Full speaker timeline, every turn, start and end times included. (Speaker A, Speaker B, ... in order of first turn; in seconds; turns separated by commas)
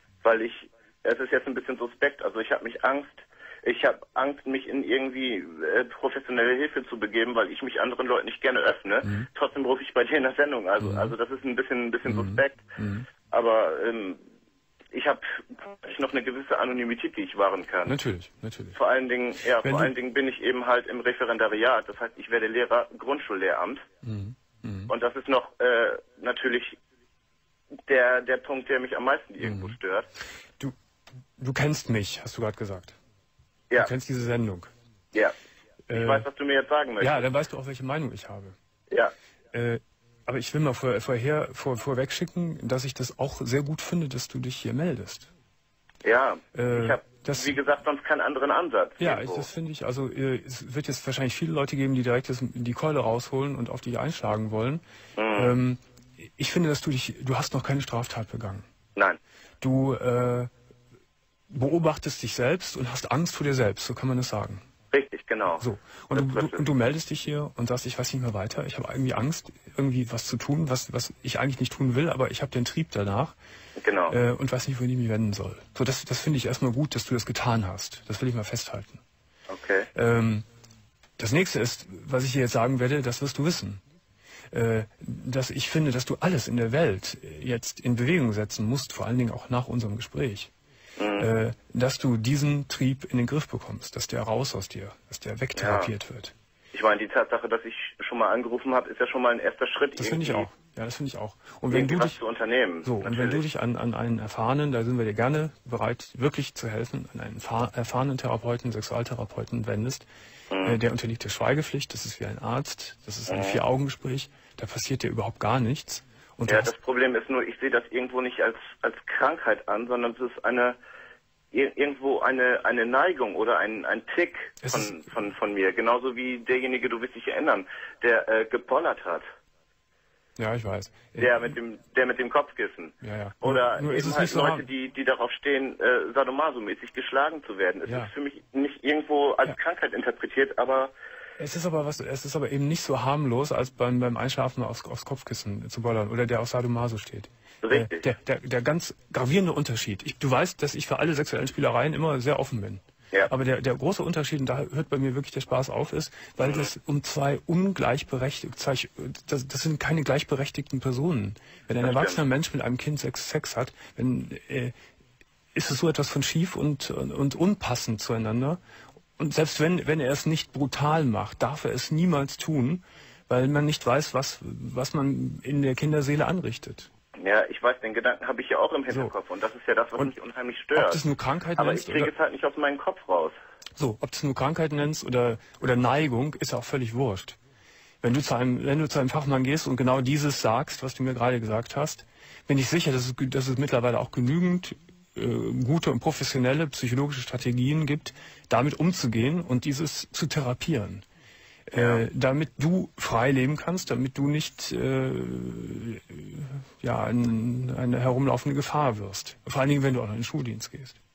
Speaker A: 0.2-12.7, Speaker B: 9.0-9.3, Speaker B: 10.8-11.1, Speaker B: 12.0-13.1, Speaker A: 13.2-14.2, Speaker A: 14.9-17.9, Speaker B: 17.9-18.8, Speaker A: 18.7-23.8, Speaker B: 19.6-19.9, Speaker B: 24.0-24.9, Speaker A: 24.9-26.8, Speaker A: 27.9-30.1, Speaker B: 29.4-29.8, Speaker B: 31.4-33.0, Speaker B: 33.8-34.7, Speaker B: 35.9-36.3, Speaker A: 35.9-37.2, Speaker B: 37.0-38.5, Speaker B: 39.5-45.3, Speaker A: 46.0-49.5, Speaker B: 46.5-47.6, Speaker B: 49.0-54.8, Speaker A: 55.2-55.5, Speaker B: 55.3-58.7, Speaker B: 59.6-60.5, Speaker B: 61.5-64.7, Speaker A: 64.9-66.6, Speaker B: 65.6-73.3, Speaker A: 73.8-74.2, Speaker B: 74.1-79.0, Speaker A: 79.5-79.9, Speaker B: 79.9-80.5, Speaker B: 81.2-83.8, Speaker B: 84.5-90.5, Speaker A: 91.0-91.3, Speaker B: 91.2-96.3, Speaker A: 95.5-95.9, Speaker A: 96.7-100.5, Speaker B: 100.0-102.2, Speaker A: 101.7-103.4, Speaker B: 102.8-110.1, Speaker A: 110.5-110.8, Speaker B: 110.6-116.7, Speaker A: 113.3-113.6, Speaker A: 116.5-120.8, Speaker A: 121.5-129.2, Speaker B: 124.6-125.0, Speaker B: 130.4-131.6, Speaker A: 131.2-140.9, Speaker B: 133.0-134.7, Speaker B: 137.8-138.1, Speaker B: 141.4-164.7, Speaker A: 147.6-148.0, Speaker A: 156.4-156.7, Speaker A: 161.8-162.2, Speaker B: 165.5-168.6, Speaker B: 169.2-176.9, Speaker A: 177.2-181.0, Speaker B: 180.7-182.1, Speaker A: 181.6-183.3, Speaker B: 183.8-187.4, Speaker B: 188.0-201.0, Speaker B: 201.7-211.0, Speaker A: 201.7-202.0